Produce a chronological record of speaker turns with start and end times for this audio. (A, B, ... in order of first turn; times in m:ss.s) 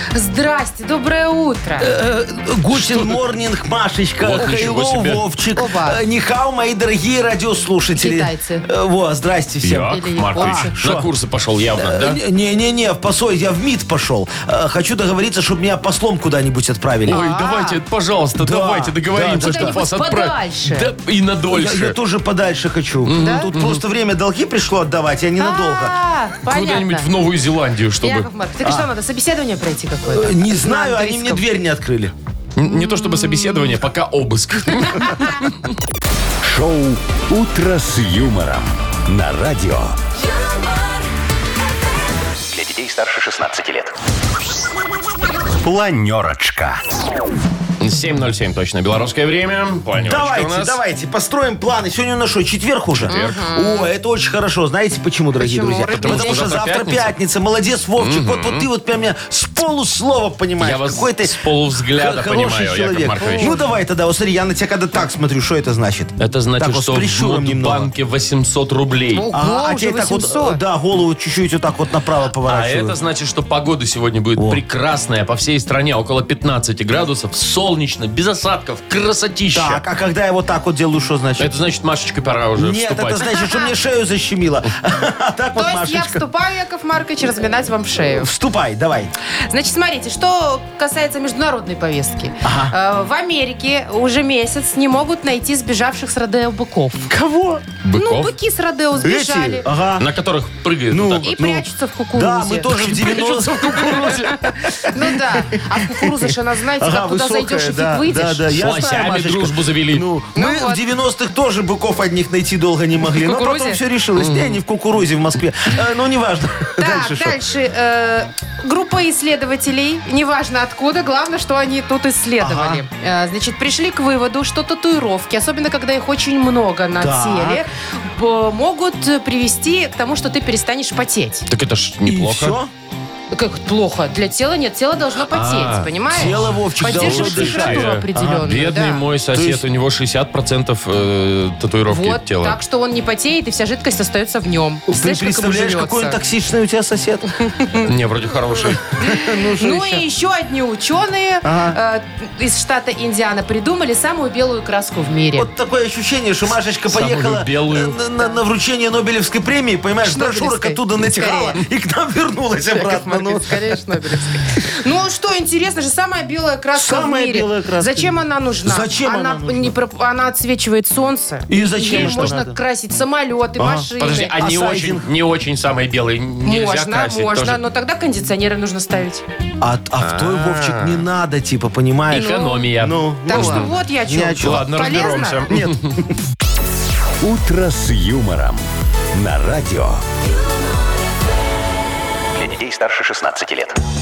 0:00.1-0:02.0 A
0:01.8-0:11.1 B
0:02.7-0:03.2 C
0:04.2-0:05.2 C
0:05.6-0:06.0 A
0:08.0-0:08.6 A
0:09.6-0:12.2 C
0:09.9-0:10.7 A
0:11.8-0:17.2 B
0:17.1-0:17.8 A
0:17.1-0:22.0 C
0:18.4-0:19.8 B
0:19.3-0:20.9 A
0:21.5-0:25.9 B
0:23.0-0:23.8 C
0:23.2-0:23.5 A
0:25.4-0:27.1 A
0:26.4-0:28.3 C
0:28.0-0:31.4 A
0:28.6-0:28.9 B
0:30.1-0:32.1 B
0:32.6-0:35.7 C
0:32.7-0:33.7 A
0:36.4-0:40.0 D
0:42.5-0:44.0 D
0:45.6-0:46.8 D
0:47.8-0:50.8 C
0:50.0-1:07.9 B
0:53.0-0:53.4 C
0:53.1-0:53.9 A
0:55.4-0:56.6 A
0:56.0-0:57.2 C
0:58.0-0:58.7 C
1:00.6-1:03.5 C
1:03.2-1:03.7 A
1:06.2-1:09.3 C
1:09.1-1:10.6 A
1:09.3-1:13.0 B
1:12.4-1:19.8 C
1:19.5-1:21.5 B
1:21.4-1:23.3 C
1:22.6-1:26.2 B
1:23.4-1:23.7 A
1:25.6-1:28.3 A
1:28.2-1:29.1 B
1:29.5-1:37.1 A
1:32.4-1:32.8 B
1:37.1-1:37.7 B
1:37.8-1:38.4 C
1:38.0-1:39.7 A
1:39.0-1:40.1 B
1:40.0-1:41.3 C
1:40.9-1:57.4 B
1:41.2-1:42.8 A
1:42.8-1:44.3 C
1:44.9-1:48.4 A
1:48.5-1:50.1 C
1:50.4-1:50.8 A
1:53.1-1:53.8 A
1:54.2-1:54.6 C
1:56.8-2:11.5 A
2:02.4-2:02.8 B
2:07.0-2:07.6 B
2:11.5-2:12.6 C
2:12.1-2:12.7 B
2:13.3-2:19.0 A
2:15.3-2:22.6 C
2:16.1-2:18.5 B
2:19.3-2:19.6 B
2:21.9-2:26.2 A
2:24.9-2:27.3 B
2:27.6-2:27.9 A
2:27.8-2:28.8 C
2:28.5-2:30.0 B
2:29.0-2:35.5 A
2:31.4-2:31.8 B
2:35.4-2:43.8 B
2:36.9-2:38.0 C
2:40.0-2:41.6 A
2:42.7-2:54.4 A
2:46.7-2:49.8 B
2:51.5-2:52.6 B
2:51.9-2:52.3 C
2:53.6-2:55.1 B
2:54.0-2:57.6 C
2:56.4-2:59.2 A
2:59.6-3:06.1 B
3:00.0-3:01.0 C
3:02.1-3:05.4 A
3:02.1-3:03.7 C
3:04.4-3:06.0 C
3:07.2-3:10.0 D
3:12.3-3:13.8 D